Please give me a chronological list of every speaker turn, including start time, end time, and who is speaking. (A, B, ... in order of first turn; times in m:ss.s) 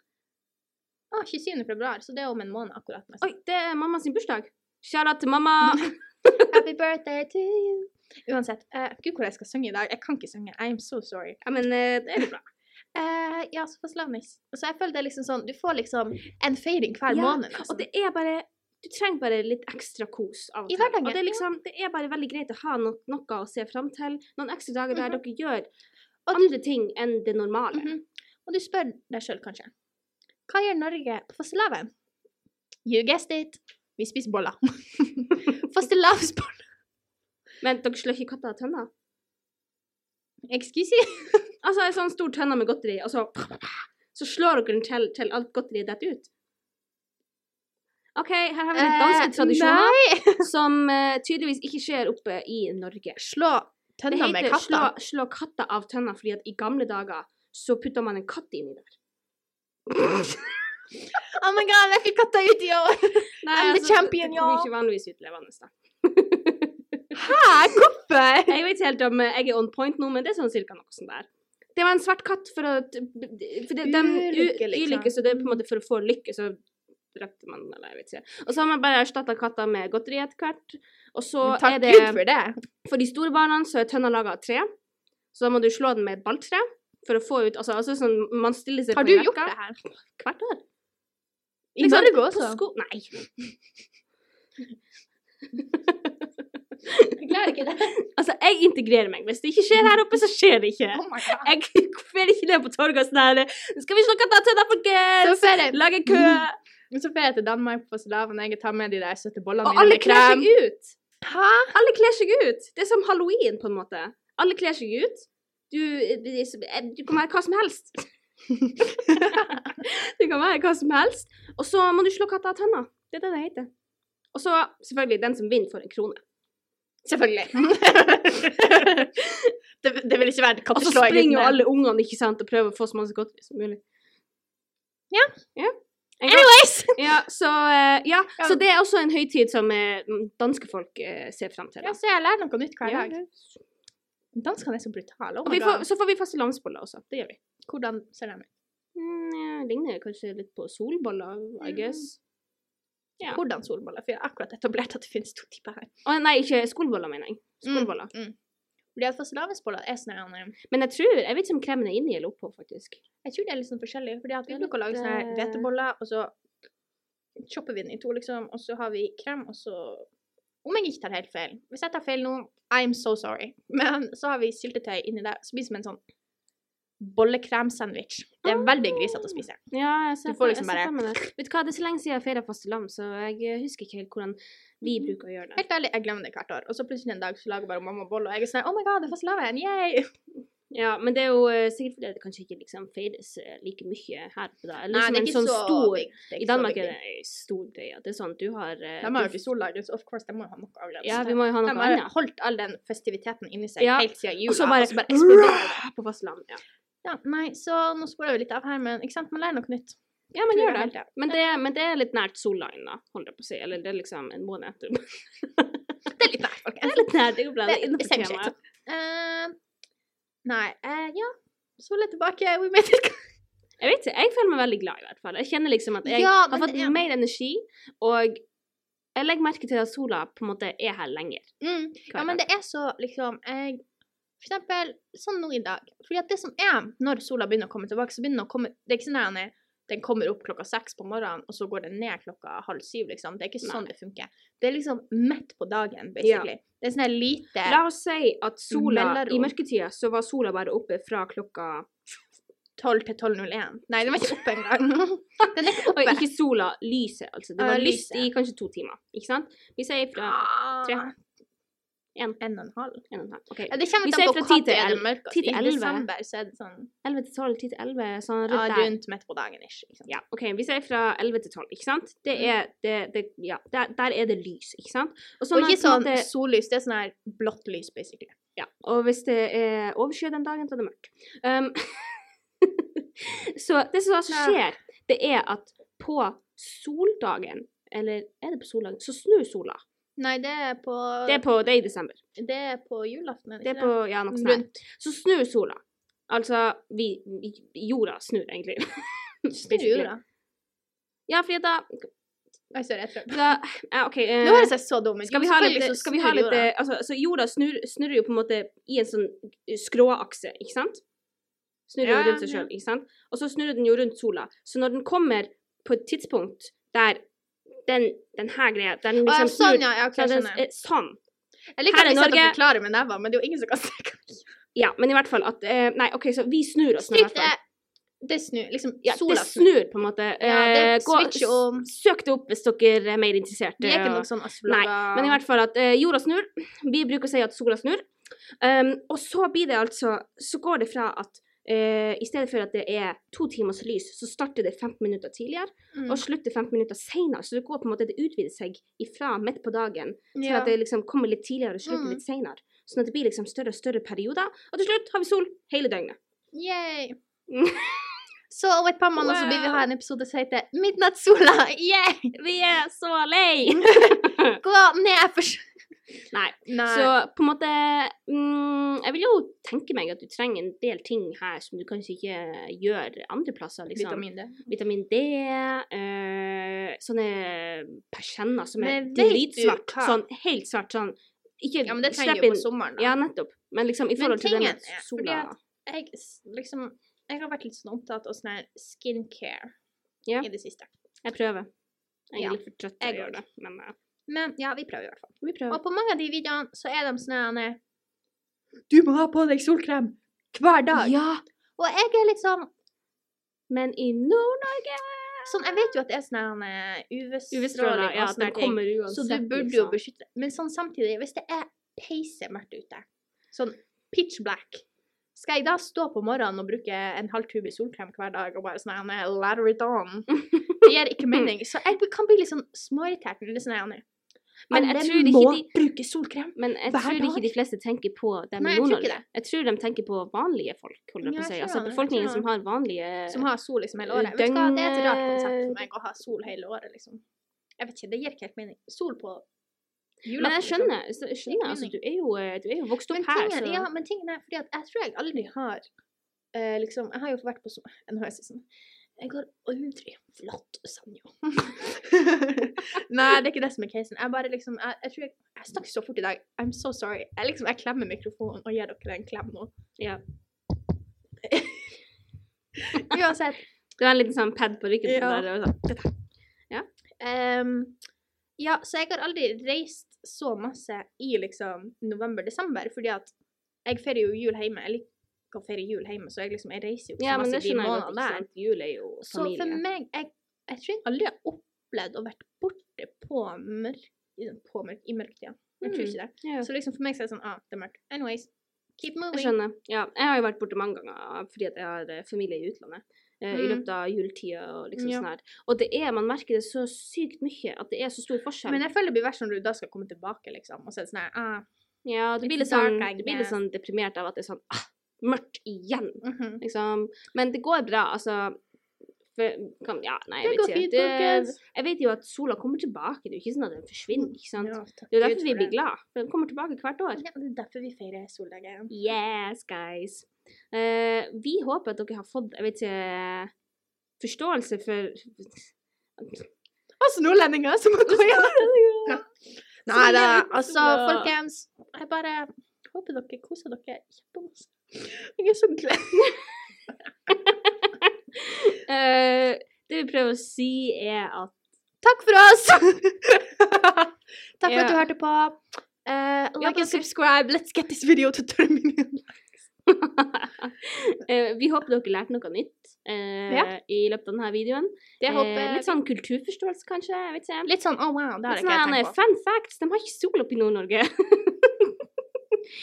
0:01.1-0:03.3 A
0:03.2-0:06.6 B
0:05.7-0:11.4 A
0:11.4-0:12.4 B
0:12.9-0:17.8 A
0:17.1-0:25.7 B
0:20.7-0:21.4 A
0:26.2-0:26.5 A
0:26.3-0:27.9 B
0:27.7-0:29.7 A
0:30.5-0:31.9 A
0:32.8-0:36.7 A
0:37.6-0:38.9 B
0:40.5-0:41.5 A
0:41.6-0:46.3 B
0:48.2-0:53.2 B
0:48.7-0:50.4 A
0:53.2-0:54.9 A
0:54.1-0:58.9 B
1:00.0-1:00.4 B
1:01.2-1:04.7 A
1:03.4-1:07.0 B
1:07.1-1:08.5 A
1:08.5-1:16.6 B
1:13.8-1:15.6 A
1:17.1-1:22.2 B
1:21.4-1:22.6 A
1:22.8-1:24.7 B
1:25.3-1:30.6 B
1:28.9-1:29.8 A
1:31.8-1:32.6 A
1:31.8-1:33.3 B
1:35.6-1:36.2 B
1:36.8-1:46.6 B
1:37.2-1:37.9 A
1:40.9-1:41.5 A
1:45.2-1:50.5 A
1:49.6-1:51.0 B
1:51.2-1:51.7 A
1:51.7-1:58.0 B
1:59.0-2:03.7 B
1:59.1-1:59.4 A
2:04.3-2:06.2 B
2:07.0-2:11.6 A
2:10.7-2:13.8 B
2:15.5-2:22.0 B
2:16.3-2:17.1 A
2:21.8-2:23.2 A
2:22.8-2:23.5 B
2:24.3-2:25.8 A
2:25.4-2:27.4 B
2:27.6-2:28.5 A
2:28.9-2:32.2 B
2:31.6-2:32.0 A
2:33.3-2:35.9 A
2:36.0-2:38.1 B
2:37.6-2:38.3 A
2:38.9-2:40.5 A
2:40.7-2:43.0 B
2:43.2-2:46.3 A
2:44.5-2:45.7 B
2:47.4-2:50.1 A
2:50.6-2:56.0 A
2:57.0-2:59.6 A
2:58.4-3:05.6 B
3:00.2-3:01.2 A
3:04.8-3:10.1 A
3:10.7-3:19.4 B
3:14.9-3:16.9 A
3:19.0-3:25.8 A
3:21.0-3:22.1 B
3:23.8-3:26.6 B
3:27.0-3:30.0 A
3:30.3-3:35.8 B
3:30.5-3:31.1 A
3:36.1-3:37.1 A
3:36.8-3:38.5 B
3:37.6-3:39.6 A
3:40.4-3:43.2 A
3:43.8-3:48.4 B
3:46.0-3:47.0 A
3:49.2-3:51.5 B
3:51.6-3:53.8 A
3:52.1-3:52.4 B
3:54.4-4:07.8 A
4:06.2-4:06.5 B
4:07.6-4:11.9 B
4:08.7-4:09.5 A
4:12.8-4:16.2 A
4:15.4-4:21.1 B
4:17.6-4:18.3 A
4:20.2-4:21.1 A
4:22.4-4:23.0 A
4:23.1-4:26.1 B
4:23.7-4:26.9 A
4:27.0-4:28.9 B
4:28.5-4:30.1 A
4:30.1-4:36.3 B
4:35.5-4:38.3 A
4:38.6-4:49.8 B
4:44.3-4:44.6 A
4:50.2-4:51.4 A
4:51.3-4:52.2 B
4:52.4-4:54.8 A
4:53.6-5:00.1 B
4:59.5-5:00.2 A
5:01.3-5:02.1 B
5:02.7-5:03.5 A
5:03.3-5:04.7 B
5:04.4-5:06.7 A
5:05.2-5:11.0 B
5:11.9-5:17.2 B
5:12.0-5:12.7 A
5:17.8-5:21.2 B
5:19.2-5:20.6 A
5:21.8-5:24.5 A
5:21.9-5:22.6 B
5:24.7-5:27.5 B
5:27.0-5:27.6 A
5:28.2-5:29.7 A
5:29.0-5:38.0 B
5:30.4-5:31.8 A
5:33.8-5:35.4 A
5:38.6-5:56.2 B
5:45.9-5:46.2 A
5:50.3-5:50.7 A
5:51.8-5:52.2 A
5:56.5-5:57.2 A
5:57.5-5:58.2 B
5:58.5-6:02.3 A
5:59.2-5:59.8 B
6:02.3-6:04.6 B
6:03.8-6:05.7 A
6:06.3-6:25.5 B
6:06.6-6:07.1 A
6:13.9-6:14.6 A
6:18.8-6:20.2 A
6:21.8-6:23.1 A
6:24.2-6:29.7 A
6:30.4-6:30.9 A
6:31.2-6:31.7 B
6:32.3-6:33.9 B
6:32.3-6:33.4 A
6:34.3-6:37.8 A
6:35.4-6:35.8 B
6:38.9-6:41.2 A
6:40.9-6:41.4 B
6:41.8-6:42.7 A
6:43.7-6:45.9 B
6:45.5-6:54.8 A
6:47.5-6:50.0 B
6:55.3-7:04.0 A
7:00.5-7:00.8 B
7:04.7-7:05.7 B
7:04.7-7:07.5 A
7:06.5-7:13.4 B
7:08.6-7:09.2 A
7:11.2-7:12.5 A
7:13.3-7:17.2 A
7:14.0-7:15.8 B
7:17.8-7:19.4 A
7:20.2-7:20.9 A
7:20.3-7:23.9 B
7:21.5-7:21.9 A
7:23.1-7:25.8 A
7:26.5-7:28.6 A
7:29.2-7:39.7 A
7:41.4-7:42.0 A
7:42.9-7:43.6 A
7:44.0-7:46.1 B
7:45.0-7:45.6 A
7:47.2-7:48.0 A
7:48.6-7:53.3 A
7:53.8-7:58.4 A
7:57.2-7:59.8 B
7:59.2-8:09.5 A
8:05.8-8:06.7 B
8:09.3-8:18.8 B
8:13.5-8:13.8 A
8:15.0-8:15.2 A
8:18.7-8:21.6 A
8:22.0-8:28.6 B
8:22.4-8:23.6 A
8:26.2-8:26.6 A
8:29.3-8:37.2 B
8:30.4-8:31.6 A
8:34.1-8:35.7 A
8:37.2-8:38.9 A
8:38.9-8:43.5 B
8:44.2-8:46.5 B
8:47.0-8:49.3 A
8:48.0-8:49.2 B
8:49.8-8:56.4 A
8:49.9-8:51.3 B
8:57.3-9:01.5 B
9:02.0-9:09.4 A
9:04.6-9:05.0 B
9:06.6-9:07.0 B
9:09.9-9:17.7 B
9:15.2-9:16.0 A
9:17.7-9:19.1 A
9:18.5-9:22.0 B